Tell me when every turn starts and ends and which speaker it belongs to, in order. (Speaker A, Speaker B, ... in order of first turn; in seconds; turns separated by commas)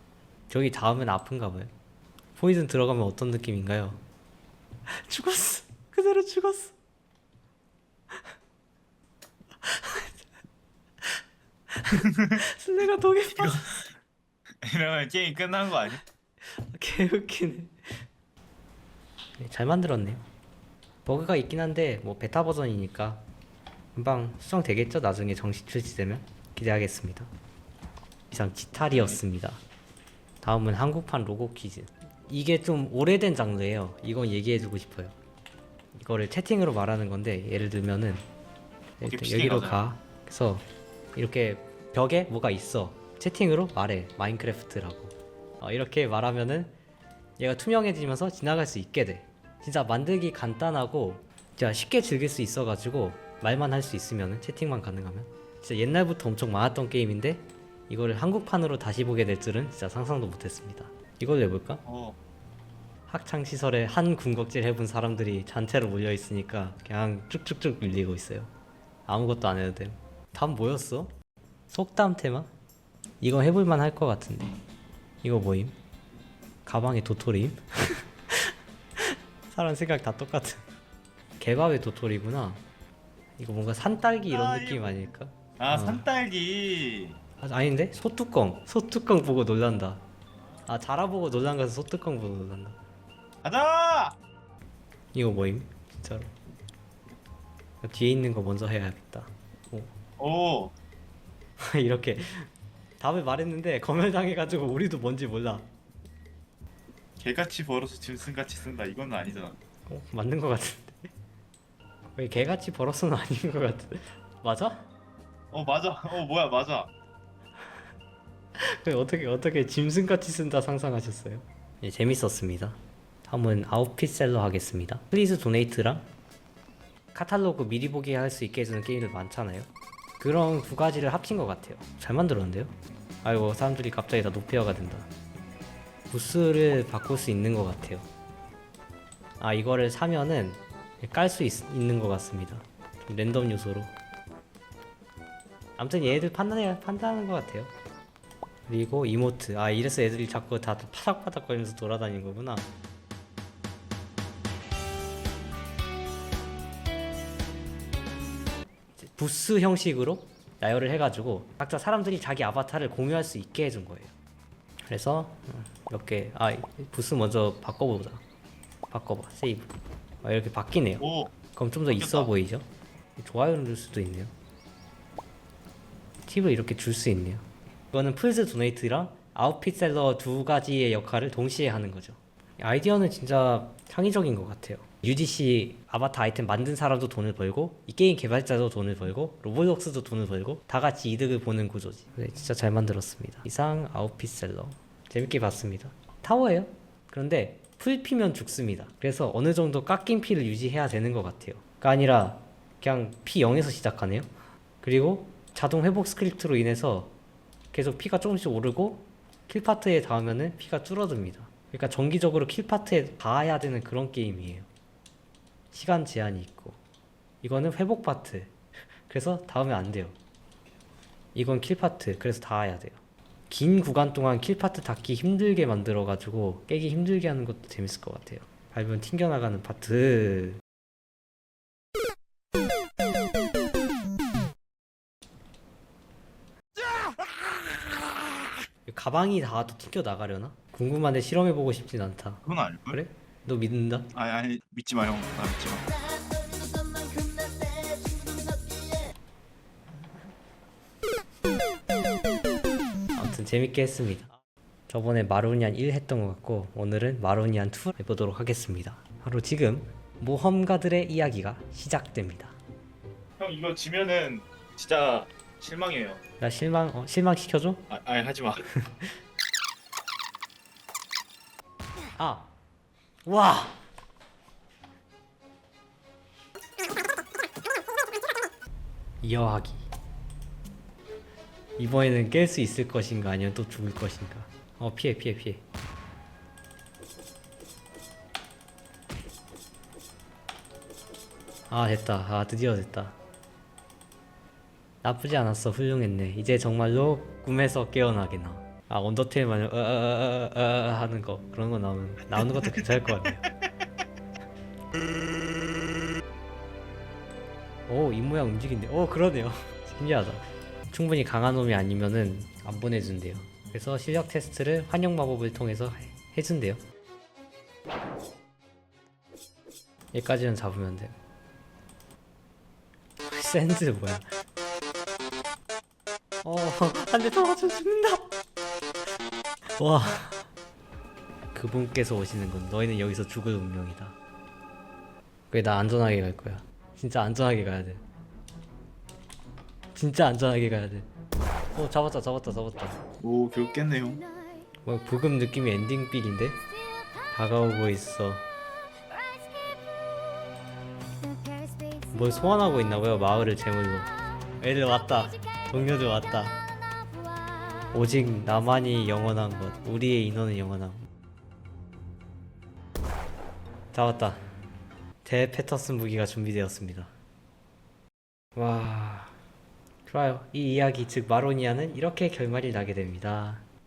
Speaker A: 0.5-1.7, Speaker A: 2.4-4.0, Speaker A: 4.9-6.8, Speaker A: 9.6-10.2, Speaker A: 11.7-13.8, Speaker B: 11.9-12.4, Speaker B: 13.3-13.9, Speaker B: 14.6-16.0, Speaker A: 16.5-17.8, Speaker A: 19.4-20.2, Speaker A: 21.1-23.2, Speaker A: 23.9-27.3, Speaker A: 28.3-29.6, Speaker B: 28.8-29.2, Speaker A: 30.4-35.1, Speaker A: 35.9-38.2, Speaker A: 39.0-46.7, Speaker B: 39.0-39.8, Speaker A: 47.4-61.8, Speaker B: 61.9-62.2, Speaker A: 63.1-68.5, Speaker A: 69.1-71.1, Speaker A: 71.7-72.5, Speaker A: 73.2-74.5, Speaker A: 75.2-75.8, Speaker A: 76.7-80.6, Speaker A: 81.4-82.6, Speaker A: 83.4-86.0, Speaker B: 84.3-85.1, Speaker B: 85.6-87.2, Speaker A: 87.4-90.0, Speaker A: 90.7-92.8, Speaker B: 93.4-94.2, Speaker A: 95.1-96.3, Speaker A: 97.8-99.9, Speaker B: 100.2-100.7, Speaker A: 101.6-102.5, Speaker A: 103.0-105.7, Speaker B: 107.2-109.6, Speaker A: 109.9-111.1, Speaker A: 112.2-114.9, Speaker B: 115.5-116.9, Speaker A: 118.6-126.0, Speaker A: 127.1-129.7, Speaker A: 130.2-132.7, Speaker A: 133.2-135.1, Speaker A: 136.1-138.1, Speaker A: 139.4-143.9, Speaker A: 145.8-147.7, Speaker A: 148.7-152.7, Speaker A: 159.0-164.1, Speaker A: 164.9-168.2, Speaker A: 168.9-169.7, Speaker A: 170.2-172.7, Speaker B: 171.0-172.3, Speaker A: 173.2-174.3, Speaker A: 176.2-204.3, Speaker A: 204.8-207.1, Speaker A: 207.7-214.7, Speaker A: 215.7-216.8, Speaker A: 217.4-218.5, Speaker A: 219.1-220.2, Speaker A: 221.3-230.6, Speaker A: 238.9-244.1, Speaker B: 242.4-243.0, Speaker B: 244.1-245.9, Speaker A: 253.2-254.3, Speaker A: 254.9-262.6, Speaker B: 263.4-266.2, Speaker A: 266.4-267.8, Speaker B: 267.9-268.6, Speaker A: 272.2-272.5, Speaker A: 273.2-273.8, Speaker A: 279.2-279.9, Speaker A: 281.8-285.6, Speaker A: 291.7-293.2, Speaker A: 295.0-303.5, Speaker A: 307.9-316.8, Speaker A: 320.1-321.2, Speaker A: 323.2-324.2, Speaker A: 326.4-328.3, Speaker A: 329.8-330.5, Speaker A: 331.5-334.2, Speaker A: 335.5-338.0, Speaker A: 339.9-341.1, Speaker A: 341.8-343.0, Speaker B: 343.2-344.2, Speaker A: 344.8-346.6, Speaker A: 347.3-348.4, Speaker A: 352.1-356.6, Speaker A: 357.9-361.0, Speaker A: 363.9-364.4, Speaker A: 365.2-367.1, Speaker A: 368.6-369.4, Speaker A: 370.1-373.6